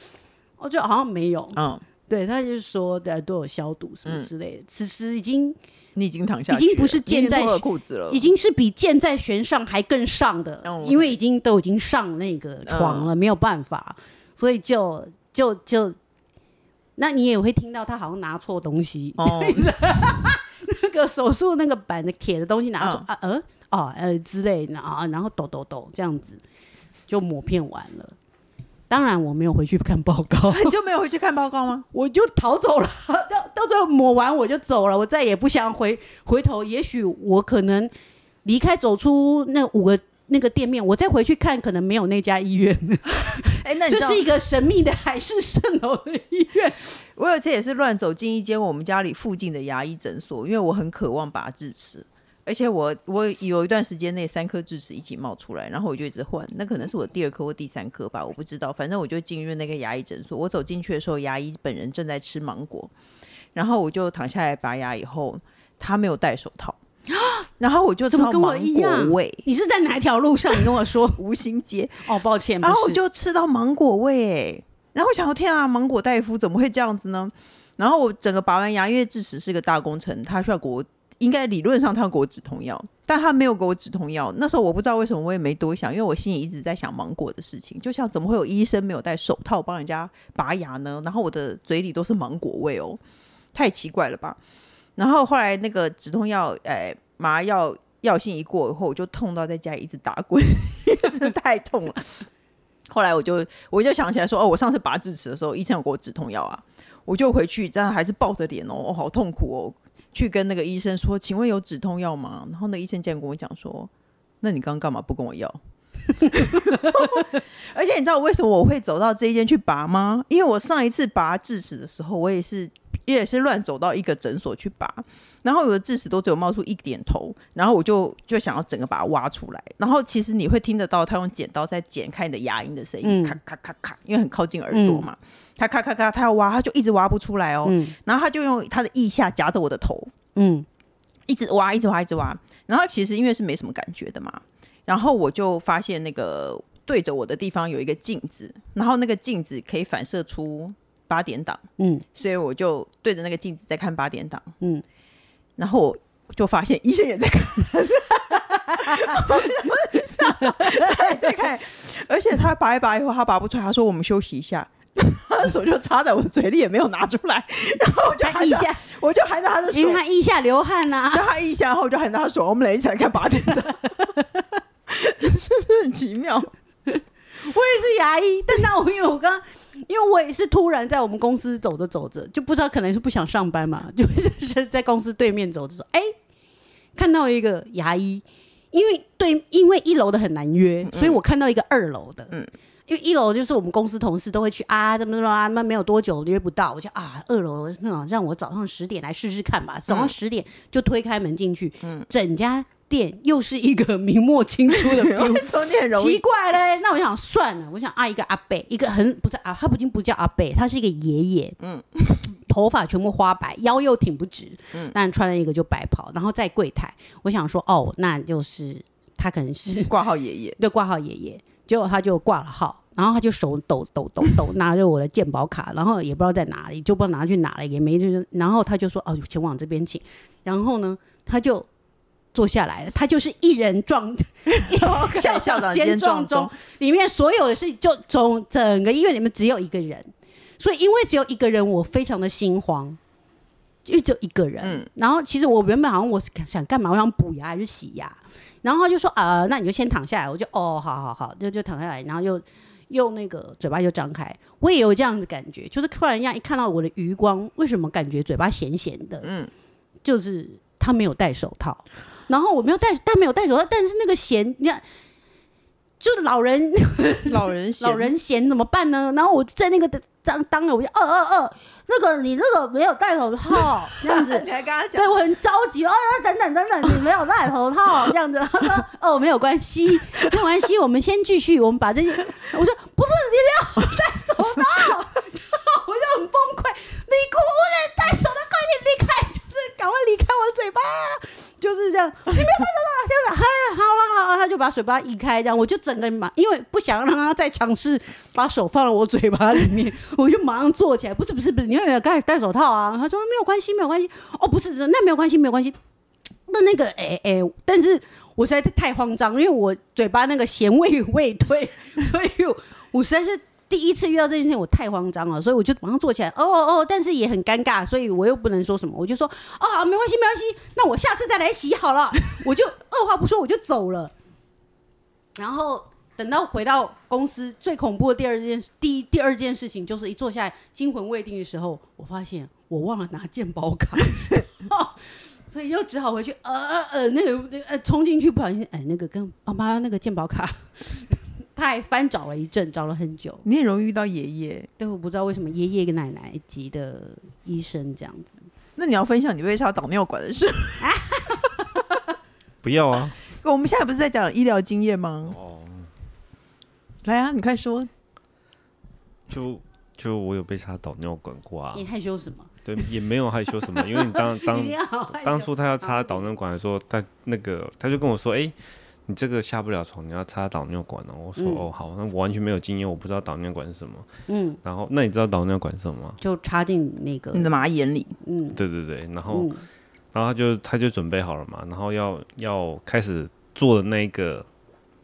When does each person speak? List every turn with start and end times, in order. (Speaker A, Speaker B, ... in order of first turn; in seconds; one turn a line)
Speaker A: 0.6-5.6
Speaker B: 1.6-1.8
Speaker B: 6.0-8.3
Speaker A: 6.5-16.0
Speaker B: 10.7-11.2
Speaker B: 12.7-13.1
Speaker A: 17.0-26.4
Speaker B: 19.2-19.7
Speaker B: 22.8-23.1
Speaker A: 27.1-28.2
Speaker A: 28.9-30.7
Speaker B: 30.5-31.9
Speaker A: 31.9-37.9
Speaker A: 38.5-46.9
Speaker B: 43.2-44.2
Speaker B: 47.2-62.9
Speaker B: 63.5-66.8
Speaker A: 67.1-67.5
Speaker B: 67.6-69.4
Speaker A: 68.1-71.2
Speaker B: 70.5-72.1
Speaker A: 72.0-73.0
Speaker B: 72.6-93.0
Speaker B: 93.5-94.4
Speaker B: 95.0-102.2
Speaker B: 102.9-113.9
Speaker B: 114.4-115.6
Speaker B: 116.2-140.1
Speaker A: 133.0-133.4
Speaker A: 134.7-135.1
Speaker A: 137.7-137.9
Speaker A: 140.4-140.7
Speaker B: 141.3-151.6
Speaker A: 151.8-152.0
Speaker B: 152.2-154.5
Speaker B: 155.6-170.0
Speaker A: 158.7-161.4
Speaker A: 168.2-168.8
Speaker A: 169.7-171.3
Speaker B: 171.1-174.1
Speaker B: 174.9-176.5
Speaker A: 176.9-186.1
Speaker A: 186.9-192.3
Speaker B: 190.9-191.2
Speaker A: 192.9-211.6
Speaker B: 199.9-200.2
Speaker B: 201.8-202.1
Speaker B: 204.7-206.2
Speaker B: 211.6-212.1
Speaker A: 212.4-219.9
Speaker B: 219.9-220.6
Speaker A: 220.6-231.7
Speaker A: 232.3-243.0
Speaker B: 234.5-236.5
Speaker A: 243.9-259.3
Speaker B: 244.6-244.9
Speaker B: 259.2-259.5
Speaker A: 260.0-264.8
Speaker A: 266.0-305.8
Speaker B: 267.3-268.1
Speaker B: 274.0-275.1
Speaker A: 306.5-324.1
Speaker A: 325.4-343.4
Speaker B: 343.4-344.7
Speaker A: 344.8-348.4
Speaker B: 348.8-351.4
Speaker A: 350.8-351.6
Speaker C: 352.6-353.2
Speaker B: 353.4-355.4
Speaker C: 355.3-355.9
Speaker B: 357.1-357.9
Speaker C: 359.3-361.9
Speaker A: 361.7-362.5
Speaker C: 362.6-368.6
Speaker A: 363.7-366.3
Speaker C: 369.1-374.1
Speaker A: 371.4-371.7
Speaker A: 374.3-374.6
Speaker C: 374.6-376.2
Speaker A: 376.2-377.5
Speaker B: 377.3-378.1
Speaker A: 378.2-378.6
Speaker C: 378.5-379.5
Speaker A: 379.3-379.6
Speaker C: 380.1-384.5